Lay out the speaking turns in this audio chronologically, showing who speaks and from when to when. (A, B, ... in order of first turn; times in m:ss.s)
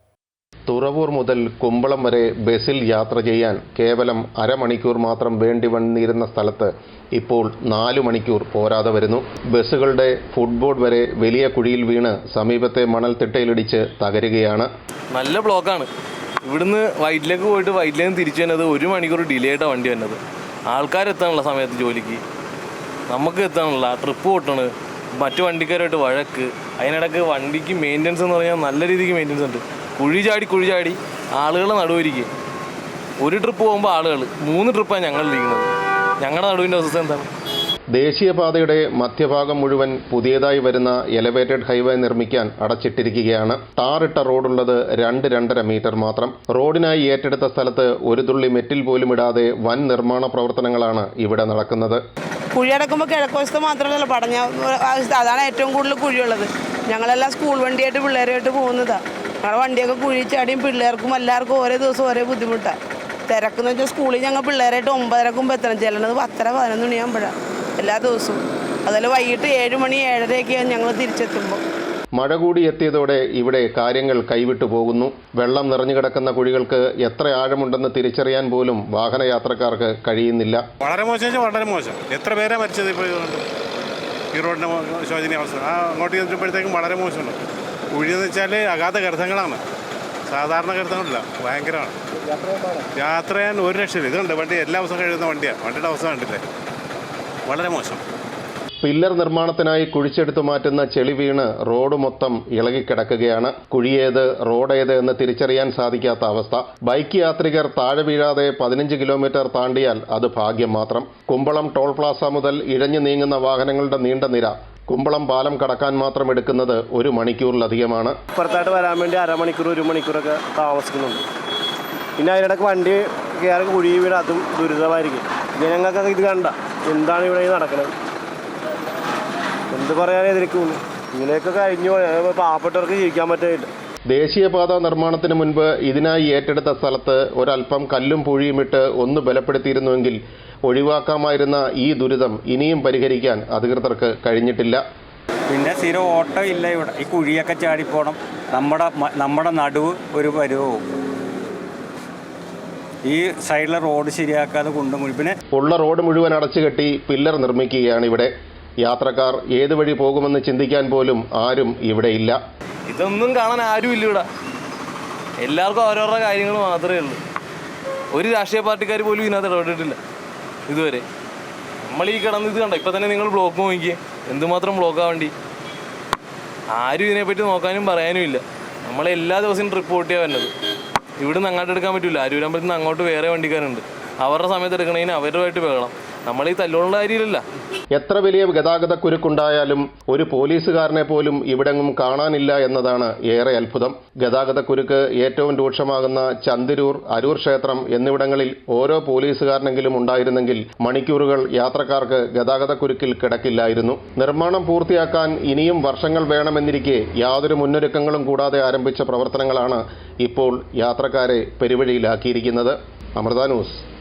0:00.7-0:14.7 A
0:15.1-0:15.9 B
0:16.4-0:22.2 B
0:23.1-0:32.3 B
0:33.2-0:35.7 B
0:36.2-0:37.3 B
0:37.9-0:52.0 A
0:52.5-1:02.8 C
1:03.3-1:11.6 C
1:12.2-1:20.6 A
1:20.8-1:23.4 D
1:24.3-1:27.4 D
1:27.9-1:29.6 D
1:30.3-1:31.9 D
1:32.4-1:32.9 E
1:33.0-1:36.4 D
1:37.5-1:38.0 D
1:38.8-1:58.2 A
1:58.3-2:01.2 E
2:02.2-2:07.9 E
2:09.7-2:13.7 E
2:14.1-2:24.8 A
2:25.5-2:30.8 F
2:33.0-2:35.4 F
2:35.5-2:38.3 A
2:38.8-2:42.4 A
2:42.9-2:44.2 B
2:45.4-2:47.2 B
2:48.1-2:50.0 B
2:50.7-2:51.0 B
2:51.8-2:55.3 B
2:56.7-3:00.5 B
3:01.2-3:07.4 B
3:07.9-3:33.8 A